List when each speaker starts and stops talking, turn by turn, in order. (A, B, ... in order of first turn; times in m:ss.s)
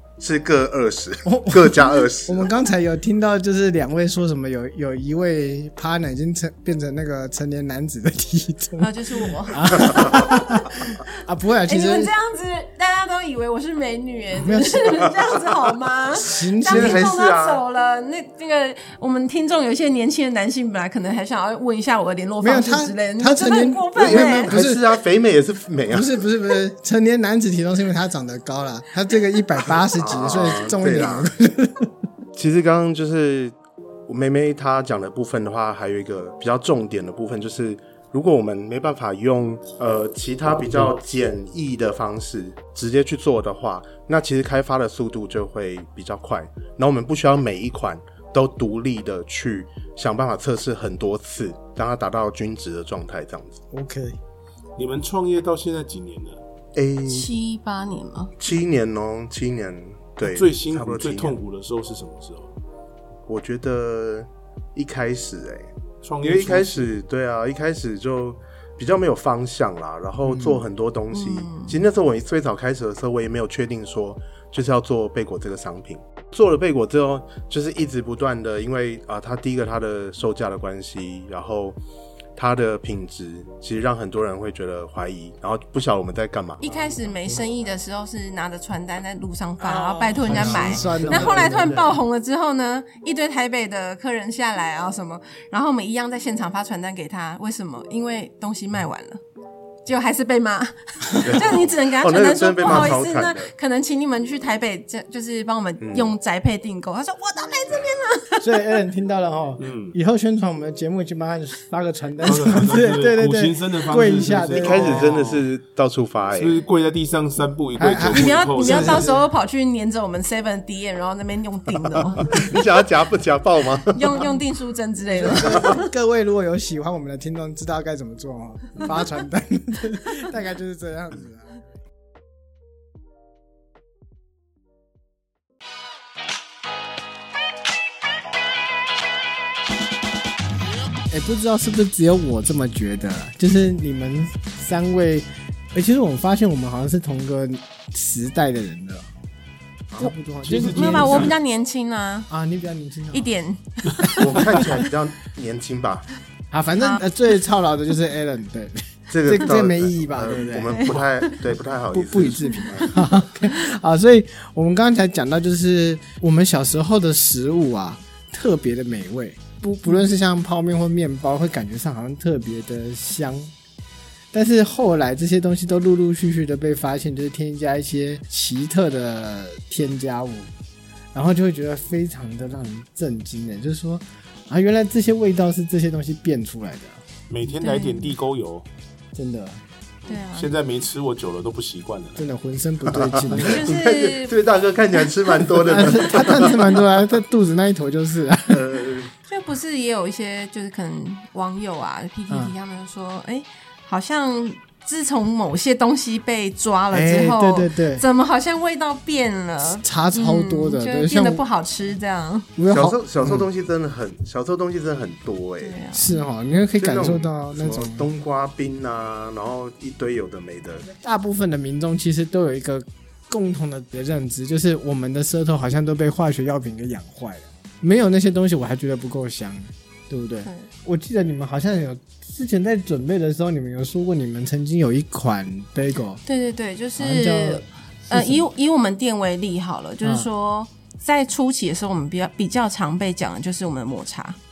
0:00.2-0:02.5 A
0:01.2-0:12.1 B
0:08.8-0:10.9 C
0:11.6-0:24.5 C
0:14.3-0:15.1 B
0:16.1-0:17.1 B
0:16.6-0:17.6 A
0:22.4-0:25.0 B
0:24.0-0:26.1 A
0:25.9-0:31.9 B
0:29.9-0:31.3 A
0:32.4-0:33.5 A
0:34.1-0:53.6 A
0:53.7-0:54.2 B
0:54.8-0:56.4 D
0:56.8-0:57.3 A
0:57.1-0:58.3 C
0:58.4-1:01.4 A
1:00.2-1:02.5 D
1:03.3-1:05.7 A
1:06.0-1:06.9 D
1:06.2-1:21.8 A
1:10.2-1:10.6 B
1:11.1-1:11.8 C
1:22.4-1:26.9 A
1:26.6-1:39.2 C
1:29.6-1:31.9 B
1:30.3-1:31.6 D
1:30.4-1:31.5 A
1:39.8-1:48.6 C
1:41.1-1:43.5 A
1:45.8-1:46.1 A
1:48.4-1:55.1 B
1:49.6-1:49.9 D
1:52.2-1:55.4 D
1:54.5-1:56.6 A
1:56.3-1:59.1 D
1:57.8-1:59.2 B
1:58.1-2:02.6 C
2:02.2-2:04.3 A
2:03.9-2:05.9 C
2:05.1-2:11.6 B
2:05.4-2:05.7 A
2:21.1-2:29.1 B
2:30.0-2:31.4 B
2:30.4-2:31.4 D
2:30.7-2:32.3 C
2:32.3-2:33.3 B
2:33.1-2:34.2 C
2:34.1-2:36.1 A
2:36.5-2:41.0 B
2:39.1-2:43.0 A
2:40.7-2:41.4 C
2:41.9-2:53.5 B
2:42.7-2:43.0 C
2:54.3-3:00.5 B
3:01.1-3:07.0 B
3:07.3-3:08.6 D
3:07.6-3:08.1 C
3:09.1-3:09.6 B
3:10.1-3:12.2 D
3:10.1-3:10.5 C
3:12.2-3:13.7 B
3:12.9-3:16.8 A
3:13.4-3:14.4 C
3:15.6-3:18.6 B
3:18.5-3:19.1 A
3:19.3-3:32.5 C
3:26.9-3:28.0 B
3:29.7-3:31.4 B
3:32.6-3:33.4 B
3:32.7-3:35.8 A
3:35.6-3:36.2 C
3:35.9-3:38.1 B
3:36.8-3:40.9 A
3:40.9-3:56.2 B
3:56.2-4:04.4 C
3:57.0-3:58.4 B
4:00.0-4:00.3 B